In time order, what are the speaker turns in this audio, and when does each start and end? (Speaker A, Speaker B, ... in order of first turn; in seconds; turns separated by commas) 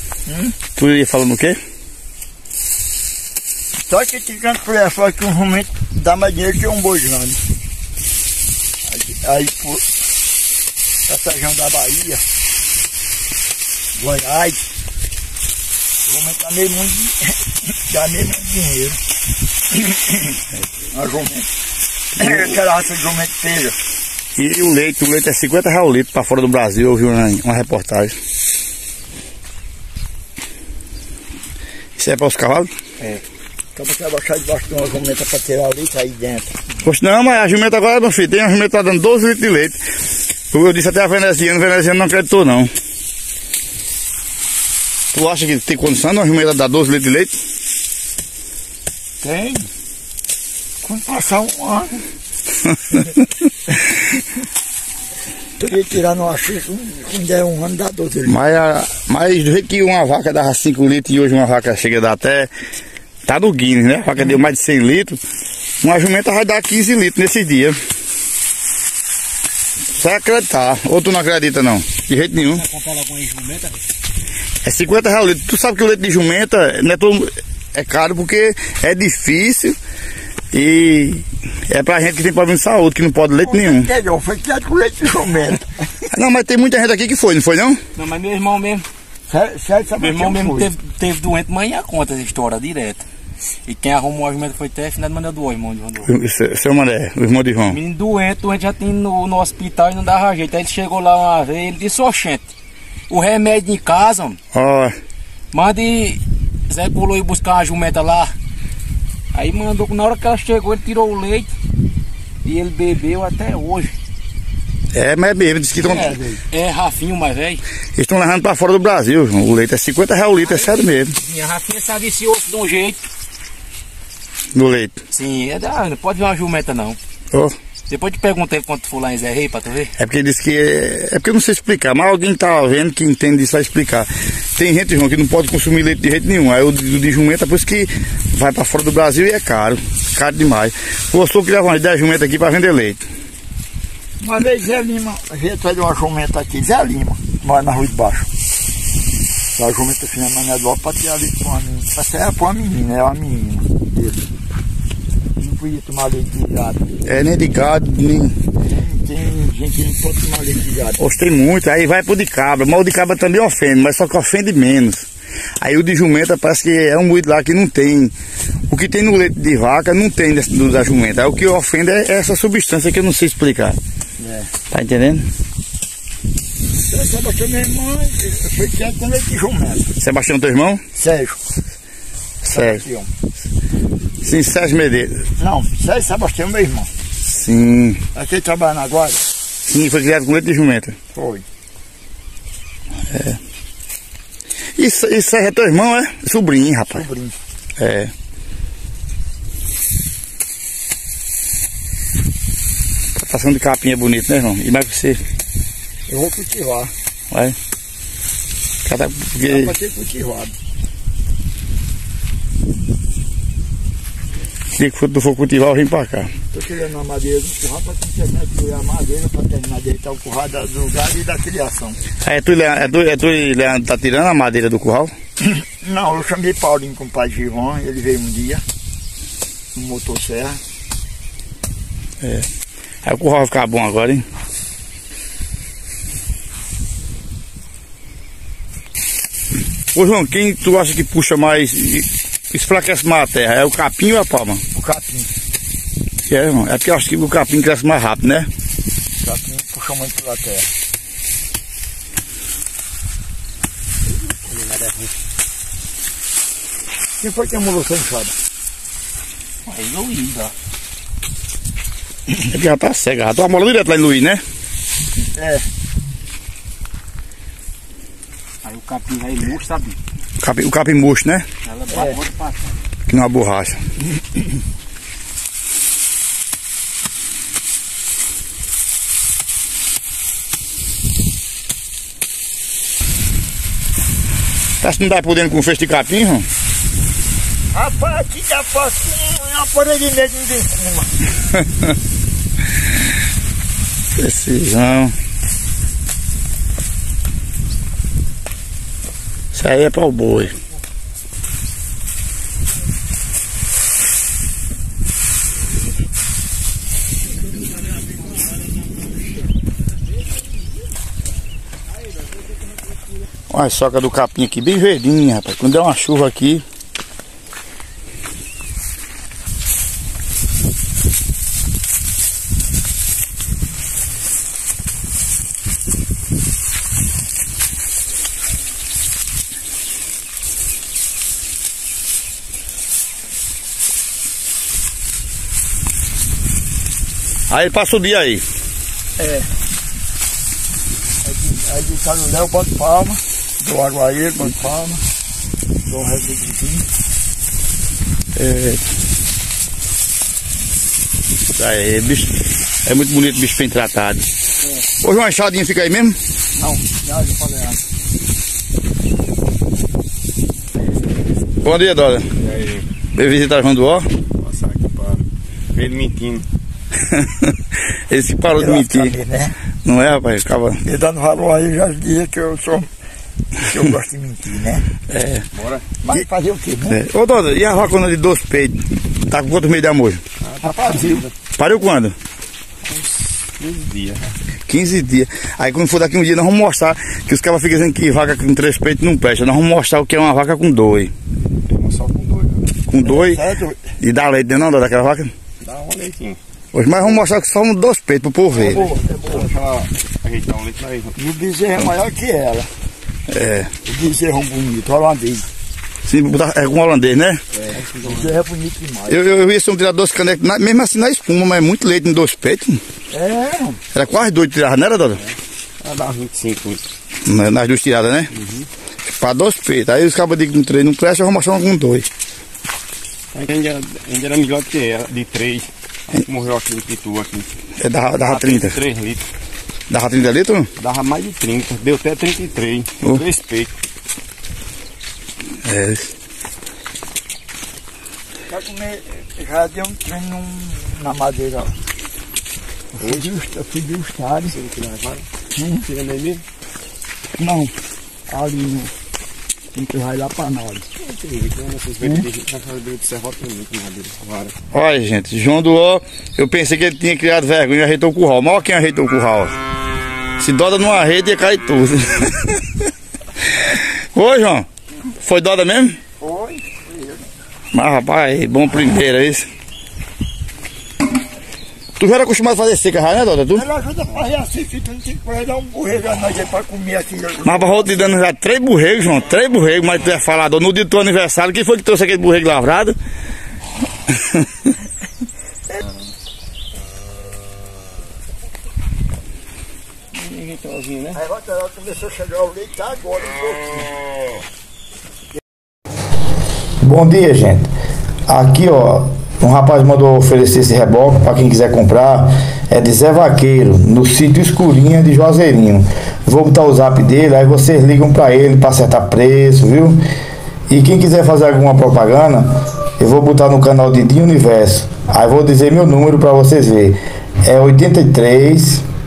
Speaker A: 0.2-0.6, Speaker B: 0.8-1.6, Speaker A: 3.9-7.4, Speaker A: 8.9-9.8, Speaker A: 11.1-12.2, Speaker A: 14.0-14.6, Speaker A: 16.1-17.3, Speaker A: 17.9-19.0, Speaker A: 19.8-20.1, Speaker A: 20.9-21.4, Speaker A: 22.2-23.8, Speaker B: 24.4-28.1, Speaker B: 32.0-32.7, Speaker A: 33.8-36.5, Speaker B: 36.8-39.8, Speaker B: 40.5-42.7, Speaker B: 45.1-47.3, Speaker A: 49.2-49.7, Speaker A: 50.8-52.0, Speaker A: 55.6-58.4, Speaker B: 58.2-62.5, Speaker B: 63.2-65.2, Speaker B: 65.8-67.8, Speaker B: 70.0-72.6, Speaker C: 72.5-73.8, Speaker B: 74.6-79.8, Speaker B: 80.5-83.9, Speaker A: 83.4-85.7, Speaker B: 86.1-87.8, Speaker C: 88.0-88.8, Speaker A: 89.3-90.7, Speaker C: 90.0-93.0, Speaker C: 93.6-96.1, Speaker B: 96.0-97.8, Speaker C: 97.7-102.5, Speaker C: 103.1-104.4, Speaker B: 104.5-105.0, Speaker C: 105.5-108.3, Speaker C: 109.3-111.5, Speaker C: 112.4-114.0, Speaker B: 114.9-116.1, Speaker A: 115.8-116.4, Speaker C: 116.5-117.6, Speaker B: 118.0-121.1, Speaker C: 120.5-123.1, Speaker B: 124.5-125.0, Speaker C: 125.1-127.0, Speaker C: 127.9-129.9, Speaker B: 130.0-143.0, Speaker A: 144.2-148.3, Speaker A: 149.5-154.2, Speaker A: 155.4-156.8, Speaker B: 157.0-158.4, Speaker A: 158.6-161.0, Speaker B: 161.0-165.1, Speaker B: 165.6-168.1, Speaker B: 168.7-173.8, Speaker A: 174.2-174.5, Speaker B: 174.7-175.3, Speaker A: 176.9-179.9, Speaker B: 180.0-180.8, Speaker A: 181.0-181.4, Speaker B: 182.4-182.8, Speaker A: 182.5-183.1, Speaker B: 184.2-185.3, Speaker A: 185.4-186.9, Speaker B: 187.2-188.0, Speaker A: 188.1-189.2, Speaker B: 189.7-191.0, Speaker A: 191.1-191.4, Speaker B: 193.1-193.4, Speaker B: 194.8-197.0, Speaker A: 196.9-197.4, Speaker B: 197.8-198.1, Speaker B: 203.1-205.2, Speaker A: 206.1-206.9, Speaker B: 208.8-209.7, Speaker A: 209.5-210.5, Speaker B: 214.8-216.3, Speaker A: 216.5-222.0, Speaker B: 222.2-225.1, Speaker A: 225.4-228.6, Speaker A: 229.8-230.6, Speaker B: 232.2-232.5, Speaker B: 233.0-234.2, Speaker B: 239.9-244.6, Speaker A: 244.8-245.3, Speaker B: 246.3-248.5, Speaker A: 249.2-250.7, Speaker C: 254.5-255.0, Speaker A: 257.2-258.4, Speaker C: 259.6-260.5, Speaker B: 262.4-264.4, Speaker A: 265.3-265.6, Speaker C: 268.6-270.0, Speaker B: 270.4-271.4, Speaker C: 271.6-272.8, Speaker A: 271.9-272.2, Speaker B: 273.1-273.8, Speaker B: 284.8-286.5, Speaker A: 287.7-291.2, Speaker B: 294.2-295.1, Speaker B: 299.5-300.6, Speaker B: 313.5-316.6, Speaker B: 337.5-338.4, Speaker A: 339.2-339.5, Speaker A: 341.2-345.0, Speaker A: 345.9-346.9, Speaker B: 348.4-348.8, Speaker B: 351.5-354.2, Speaker B: 355.0-356.2, Speaker A: 356.6-357.8, Speaker B: 361.6-362.2, Speaker D: 362.4-362.9, Speaker B: 363.1-364.1, Speaker D: 364.4-366.5, Speaker B: 367.1-367.5, Speaker B: 368.1-369.1, Speaker A: 368.5-369.5, Speaker B: 369.9-370.8, Speaker A: 370.8-372.9, Speaker A: 373.6-374.9, Speaker B: 375.1-375.4, Speaker D: 375.6-375.8, Speaker A: 376.0-377.0, Speaker B: 376.9-380.2, Speaker D: 380.4-381.3, Speaker A: 380.6-381.3, Speaker B: 381.6-382.1, Speaker D: 382.8-384.4, Speaker B: 384.7-391.1, Speaker D: 391.7-392.6, Speaker B: 392.9-393.4, Speaker A: 393.0-393.8, Speaker B: 394.0-395.3, Speaker D: 395.6-396.4, Speaker B: 396.7-398.8, Speaker A: 398.5-399.5, Speaker D: 398.5-401.1, Speaker A: 401.1-402.7, Speaker B: 403.3-403.7, Speaker A: 403.9-405.5, Speaker B: 406.1-407.4, Speaker D: 407.6-408.3, Speaker A: 408.0-409.2, Speaker B: 409.1-412.8, Speaker A: 413.1-413.8, Speaker B: 413.9-415.2, Speaker D: 415.8-416.8, Speaker B: 417.2-418.3, Speaker B: 419.1-422.1, Speaker D: 423.3-427.5, Speaker B: 427.8-428.8, Speaker D: 428.2-429.2, Speaker B: 429.9-430.7, Speaker D: 430.8-433.7, Speaker B: 435.6-436.1, Speaker A: 438.5-441.7, Speaker A: 443.0-444.6, Speaker D: 443.0-443.3, Speaker D: 444.5-445.3, Speaker A: 445.5-445.9, Speaker D: 445.8-446.4, Speaker A: 447.4-447.7, Speaker A: 448.3-448.9, Speaker A: 449.7-450.9, Speaker D: 451.0-454.5, Speaker B: 454.7-459.5, Speaker B: 460.4-462.6, Speaker B: 463.6-464.6, Speaker B: 465.2-466.0, Speaker A: 466.2-467.2, Speaker B: 467.7-469.5, Speaker B: 472.0-473.6, Speaker A: 473.5-478.0, Speaker B: 477.4-483.0, Speaker D: 490.1-491.2, Speaker A: 491.1-494.0, Speaker B: 496.8-497.7, Speaker B: 498.3-510.0, Speaker B: 510.7-512.5, Speaker B: 513.0-518.9